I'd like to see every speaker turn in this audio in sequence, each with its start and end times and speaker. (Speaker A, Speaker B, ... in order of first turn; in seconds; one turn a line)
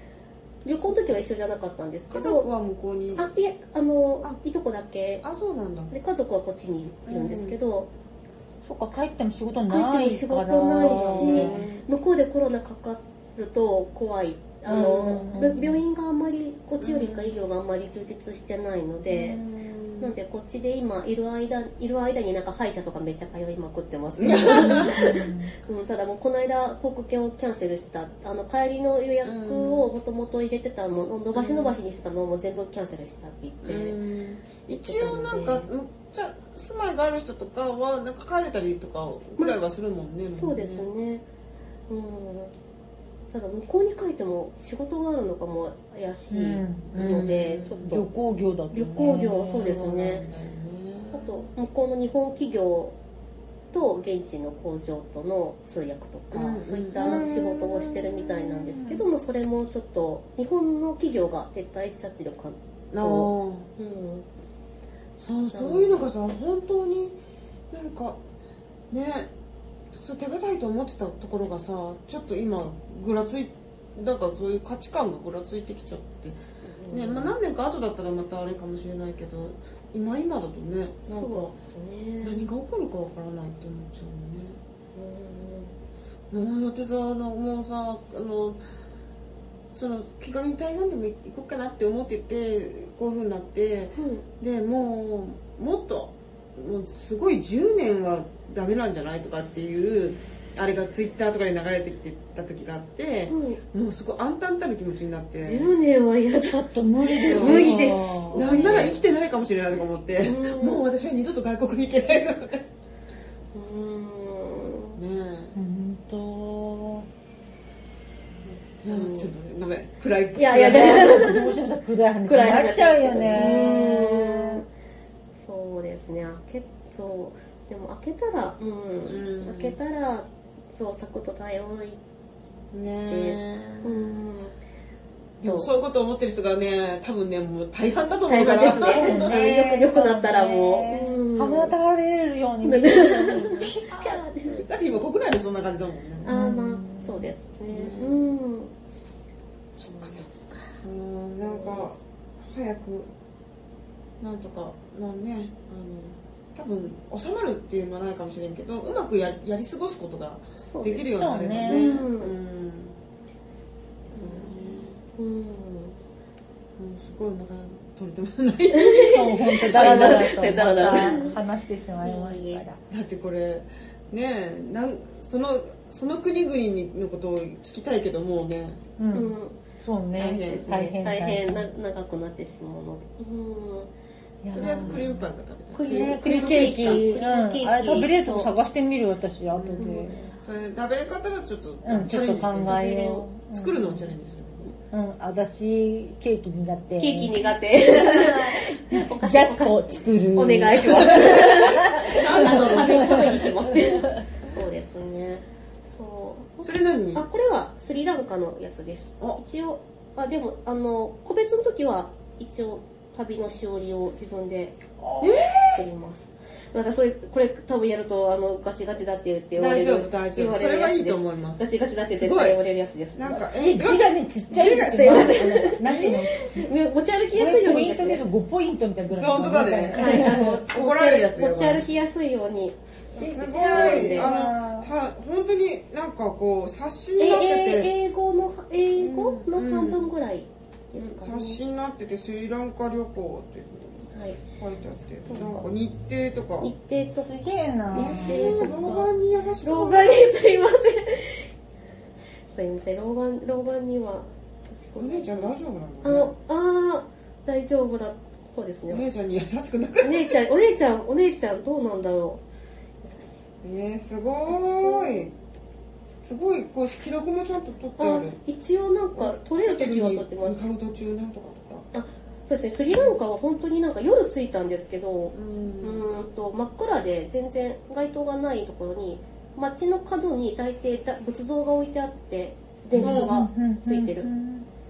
Speaker A: 0.6-2.5
Speaker B: 0.8-1.2
Speaker B: 2.1-3.3
Speaker A: 3.2-5.2
Speaker B: 5.2-5.9
Speaker A: 5.9-7.9
Speaker B: 7.1-7.6
Speaker C: 8.6-11.6
Speaker A: 9.7-19.4
Speaker B: 10.8-11.8
Speaker B: 14.7-15.1
Speaker C: 14.7-15.8
Speaker B: 16.8-17.4
Speaker B: 19.1-20.1
Speaker A: 20.0-34.0
Speaker B: 24.2-25.2
Speaker C: 24.3-25.5
Speaker B: 29.2-29.9
Speaker B: 31.3-31.8
Speaker B: 33.6-40.9
Speaker A: 34.7-35.7
Speaker A: 40.3-41.2
Speaker A: 41.9-42.5
Speaker A: 43.3-48.0
Speaker C: 46.3-49.7
Speaker B: 47.0-47.9
Speaker A: 48.7-50.2
Speaker B: 49.1-51.5
Speaker A: 51.1-53.0
Speaker A: 53.7-64.3
Speaker B: 56.3-58.2
Speaker C: 57.0-57.7
Speaker B: 62.9-63.7
Speaker B: 65.2-67.2
Speaker A: 65.5-66.0
Speaker B: 67.7-68.2
Speaker B: 68.9-69.3
Speaker B: 69.9-76.4
Speaker A: 76.6-77.3
Speaker B: 76.9-81.5
Speaker A: 81.1-82.5
Speaker B: 82.2-84.6
Speaker A: 85.0-85.7
Speaker B: 86.3-88.6
Speaker B: 89.7-105.7
Speaker A: 94.0-94.2
Speaker A: 103.3-103.6
Speaker A: 105.4-109.0
Speaker C: 106.4-108.9
Speaker B: 107.2-112.7
Speaker A: 110.2-110.8
Speaker A: 113.5-115.0
Speaker B: 115.0-115.6
Speaker C: 115.6-117.1
Speaker A: 118.8-119.3
Speaker B: 118.8-121.2
Speaker A: 120.4-121.6
Speaker C: 120.6-124.4
Speaker A: 122.3-124.7
Speaker B: 123.3-123.8
Speaker A: 125.4-132.0
Speaker B: 129.1-129.8
Speaker B: 132.7-134.2
Speaker A: 133.1-134.6
Speaker B: 135.4-139.5
Speaker A: 135.4-135.7
Speaker A: 138.3-141.7
Speaker C: 138.5-144.2
Speaker A: 142.6-144.7
Speaker B: 144.5-146.3
Speaker A: 146.2-148.7
Speaker C: 146.3-147.3
Speaker B: 147.7-148.2
Speaker A: 149.8-150.6
Speaker B: 150.8-153.1
Speaker A: 151.4-152.0
Speaker B: 154.2-163.0
Speaker A: 160.6-162.3
Speaker C: 161.2-162.1
Speaker B: 164.1-165.0
Speaker A: 164.1-165.9
Speaker B: 166.8-170.4
Speaker A: 168.7-171.4
Speaker C: 169.1-172.8
Speaker A: 172.0-172.6
Speaker B: 172.9-178.8
Speaker C: 179.0-181.7
Speaker A: 179.1-179.6
Speaker B: 180.1-180.8
Speaker A: 180.4-183.9
Speaker C: 184.4-185.2
Speaker B: 184.5-187.0
Speaker A: 184.6-185.0
Speaker A: 185.7-188.5
Speaker C: 185.9-190.2
Speaker B: 189.5-194.7
Speaker A: 189.8-190.3
Speaker C: 191.8-194.1
Speaker A: 192.8-193.2
Speaker C: 194.9-204.2
Speaker A: 197.0-214.8
Speaker B: 201.5-203.5
Speaker B: 206.6-207.2
Speaker C: 215.0-215.4
Speaker B: 215.2-215.8
Speaker A: 215.5-223.6
Speaker B: 219.6-222.6
Speaker B: 223.2-224.7
Speaker C: 223.5-226.7
Speaker A: 224.5-228.2
Speaker B: 225.8-226.2
Speaker C: 227.3-230.6
Speaker B: 229.1-231.9
Speaker A: 229.9-234.3
Speaker B: 233.2-237.9
Speaker C: 233.4-234.9
Speaker A: 237.2-241.6
Speaker B: 239.0-240.1
Speaker B: 241.0-246.7
Speaker A: 244.1-244.4
Speaker A: 245.3-245.7
Speaker A: 246.6-247.3
Speaker C: 247.2-248.8
Speaker A: 247.9-249.1
Speaker B: 247.9-250.2
Speaker A: 249.6-251.5
Speaker A: 252.5-259.1
Speaker B: 255.0-256.3
Speaker B: 258.9-260.4
Speaker A: 260.0-262.4
Speaker A: 263.0-263.4
Speaker B: 263.6-265.3
Speaker A: 264.5-265.3
Speaker B: 266.2-268.4
Speaker A: 268.0-270.6
Speaker B: 269.2-271.9
Speaker A: 271.9-284.3
Speaker B: 272.9-273.2
Speaker B: 275.3-276.1
Speaker B: 282.9-283.3
Speaker C: 282.9-284.7